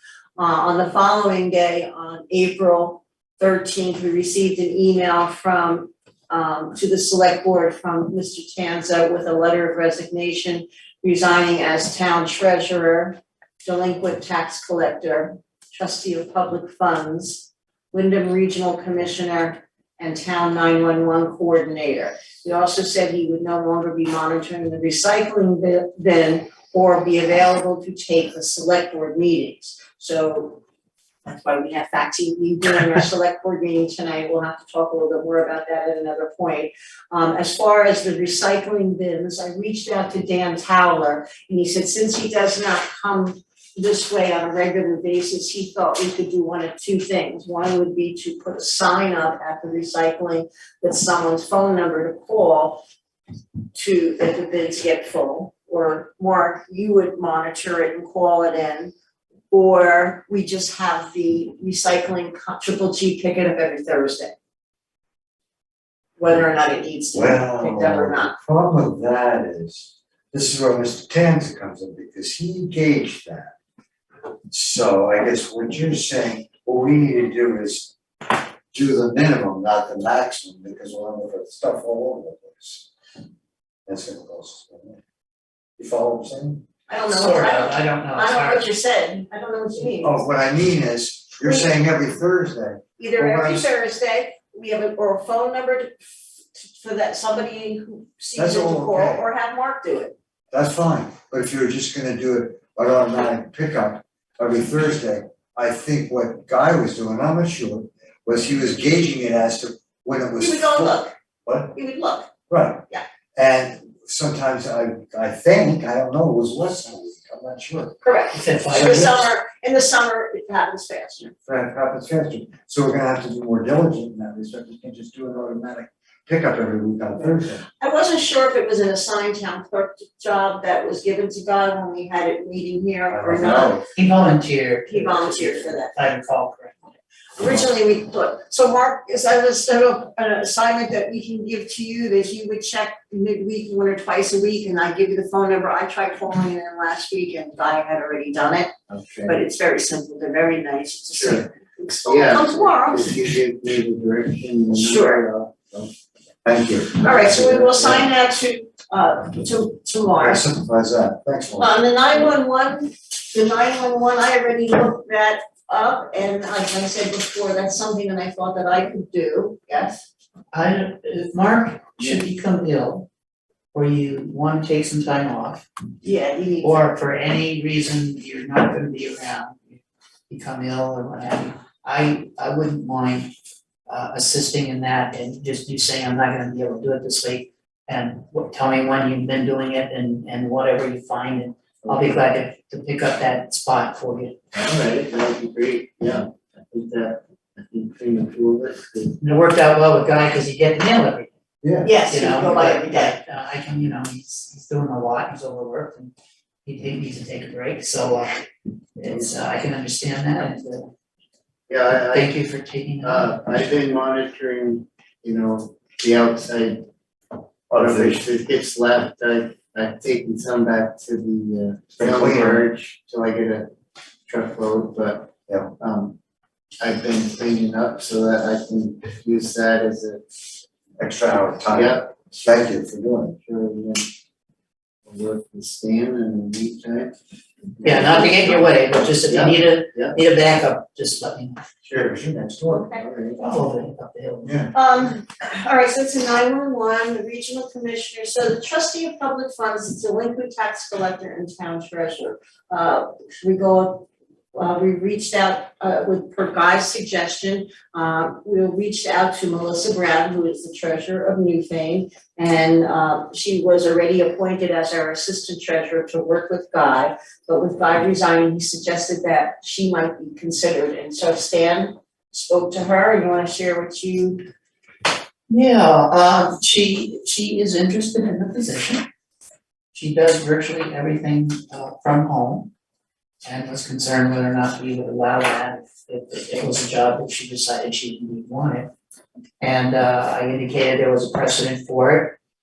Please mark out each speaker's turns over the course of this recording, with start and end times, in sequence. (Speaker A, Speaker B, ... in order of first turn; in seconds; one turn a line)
Speaker A: 0.4-30.6
Speaker A: 31.2-52.8
Speaker A: 53.7-58.9
Speaker A: 59.5-64.3
Speaker A: 66.2-68.3
Speaker B: 67.1-73.5
Speaker B: 74.5-82.9
Speaker B: 83.8-85.0
Speaker B: 85.8-86.6
Speaker A: 86.9-90.2
Speaker C: 87.1-88.7
Speaker B: 90.0-93.7
Speaker A: 91.4-91.7
Speaker A: 93.0-96.0
Speaker A: 96.5-100.1
Speaker B: 98.3-99.2
Speaker B: 100.5-111.8
Speaker A: 110.4-111.1
Speaker A: 111.7-112.3
Speaker B: 112.5-118.0
Speaker A: 118.0-121.3
Speaker C: 118.3-119.1
Speaker B: 118.7-119.1
Speaker B: 121.4-127.7
Speaker A: 127.8-133.8
Speaker B: 133.1-133.9
Speaker C: 133.9-136.8
Speaker A: 134.9-135.9
Speaker A: 137.4-148.7
Speaker D: 148.9-149.4
Speaker A: 149.2-153.2
Speaker D: 152.1-155.9
Speaker A: 154.8-155.2
Speaker B: 156.4-157.1
Speaker A: 157.0-160.4
Speaker D: 157.1-158.0
Speaker B: 160.2-161.8
Speaker A: 161.6-170.0
Speaker C: 170.5-173.1
Speaker C: 173.7-175.6
Speaker A: 176.0-176.8
Speaker C: 176.6-183.3
Speaker C: 183.9-194.3
Speaker D: 194.5-199.2
Speaker C: 199.2-201.3
Speaker B: 201.6-201.9
Speaker A: 201.8-203.2
Speaker C: 202.1-206.1
Speaker C: 206.6-210.9
Speaker D: 211.7-212.3
Speaker C: 212.1-213.3
Speaker D: 213.0-216.8
Speaker B: 217.7-218.2
Speaker D: 217.7-223.7
Speaker B: 222.0-222.6
Speaker D: 224.3-226.2
Speaker D: 226.8-230.4
Speaker B: 231.0-233.3
Speaker D: 231.7-232.1
Speaker D: 233.4-234.1
Speaker D: 235.1-237.1
Speaker D: 237.8-240.1
Speaker C: 237.8-241.6
Speaker B: 241.9-243.0
Speaker D: 242.9-243.4
Speaker C: 243.4-244.6
Speaker B: 244.4-244.7
Speaker A: 244.7-274.4
Speaker C: 275.5-279.1
Speaker C: 279.9-282.7
Speaker C: 283.4-288.9
Speaker C: 289.6-292.4